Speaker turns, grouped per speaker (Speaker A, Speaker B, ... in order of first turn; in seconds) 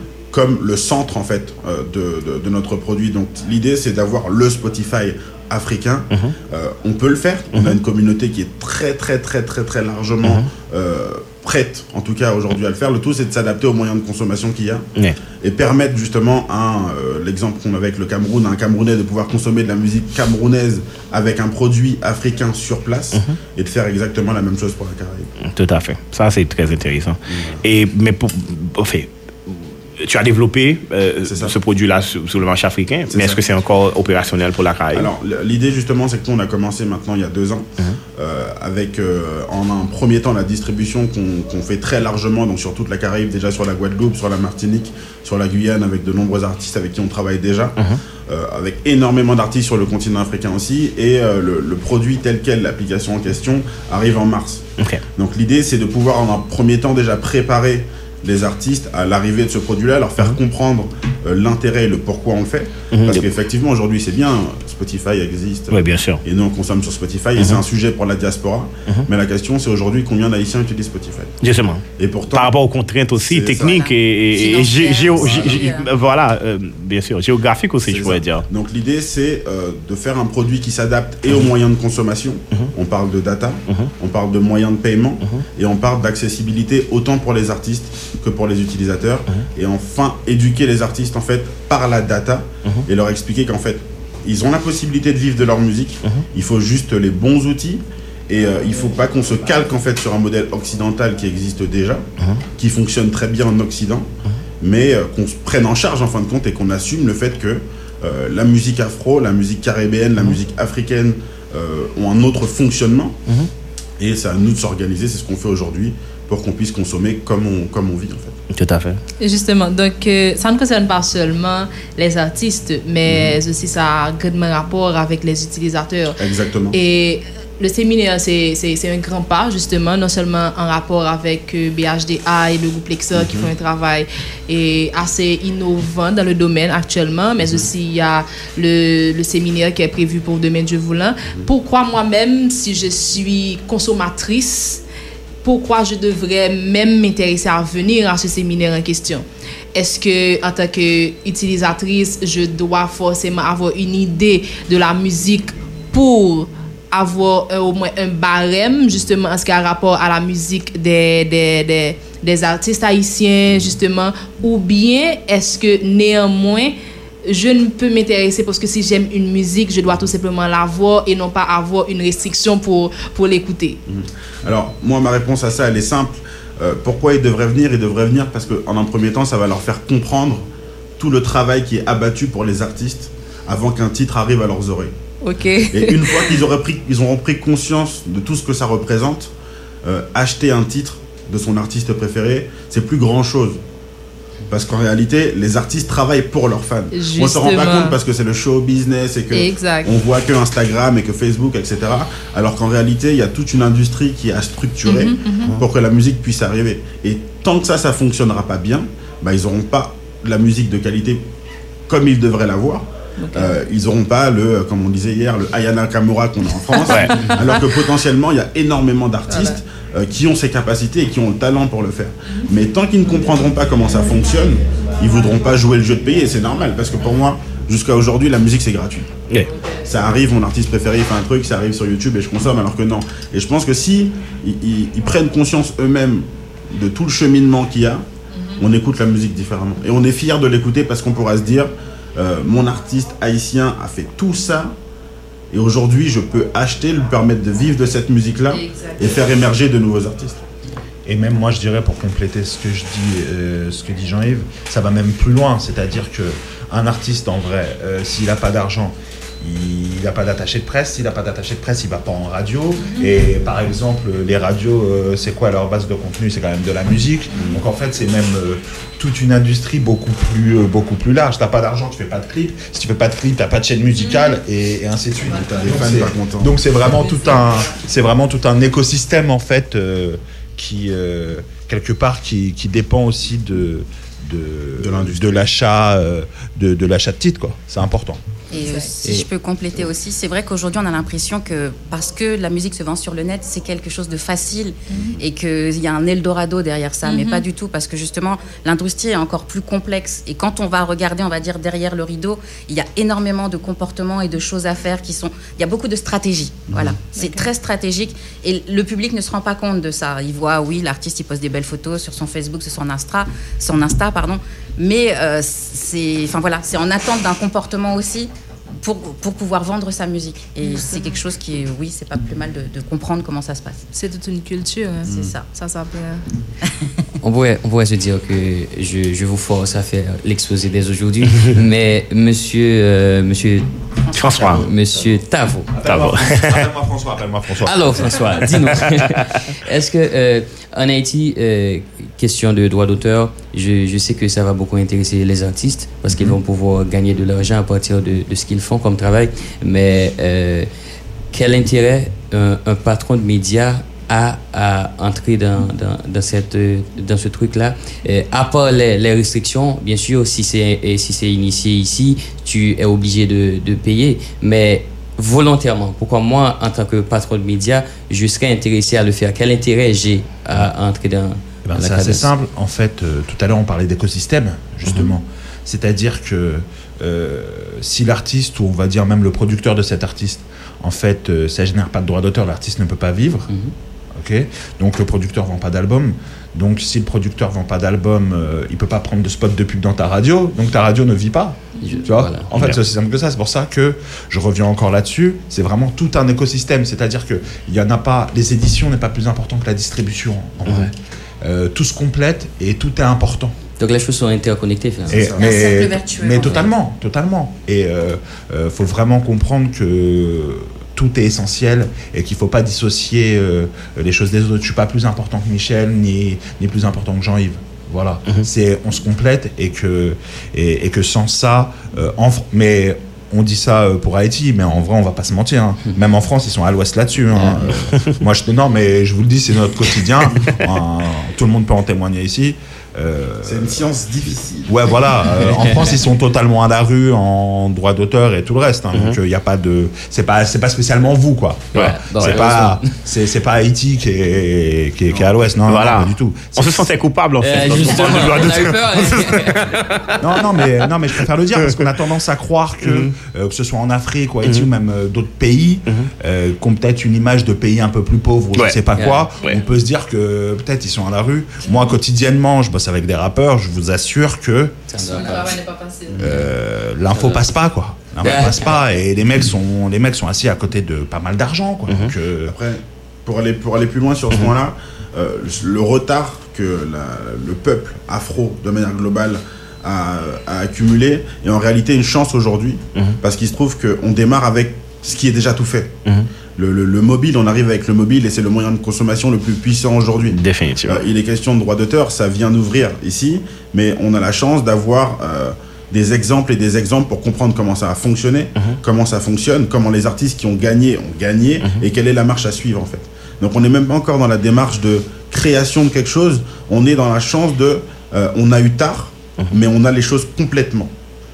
Speaker A: 0.3-14.8, 15.4-25.3, 27.3-27.6, 31.2-31.5, 33.1-33.4, 34.9-47.7, 48.3-54.6, 55.1-71.3, 72.0-72.5, 73.1-73.7, 75.1-75.7, 77.8-104.1, 104.6-113.2, 114.0-118.3, 123.0-123.4, 126.2-126.8, 133.1-133.5, 137.4-137.7, 141.2-141.5, 173.9-180.4, 181.0-184.9, 185.7-189.3, 189.8-193.6, 194.5-211.2, 211.9-229.1, 229.8-238.0, 238.6-244.7, 245.5-250.4, 267.4-267.6, 275.3-276.6, 284.8-285.5, 405.1-405.4, 433.4-434.8, 445.1-445.4, 466.1-466.4, 472.4-485.9, 486.6-510.9
Speaker B: 25.4-35.1, 62.9-63.3, 65.7-66.2, 67.3-67.6, 71.4-78.4, 118.5-119.0, 216.8-217.1, 334.1-334.6, 335.8-336.7, 438.9-439.2, 441.7-442.4, 445.6-450.4, 452.8-453.1, 471.9-472.1, 490.3-491.1
Speaker C: 73.5-75.9, 288.5-318.3, 318.8-323.8, 325.0-325.5, 334.0-334.7, 405.3-406.7
Speaker D: 119.2-144.8, 145.4-166.7, 167.2-173.8, 185.2-186.4, 196.9-198.0, 199.3-200.0, 204.8-205.6, 213.2-213.6, 219.3-219.6, 238.3-238.6, 248.5-249.2, 262.8-263.1, 274.0-274.4, 276.9-277.4, 288.6-288.9, 294.9-295.1, 297.0-297.4, 307.1-307.5, 320.6-321.2, 323.9-326.2, 391.8-392.1, 465.0-466.4
Speaker E: 251.1-288.2, 335.7-338.7, 371.6-383.5, 384.1-403.5, 405.1-433.8, 434.6-446.9, 450.2-464.8, 466.2-472.5
Speaker F: 327.2-333.7, 334.4-335.7, 337.6-350.7, 351.3-372.3, 383.5-383.7, 391.8-392.5, 403.8-405.3, 427.3-427.7, 435.5-436.0, 441.7-442.9, 447.4-449.7, 458.9-459.3, 464.9-465.6, 467.1-467.5, 468.2-468.8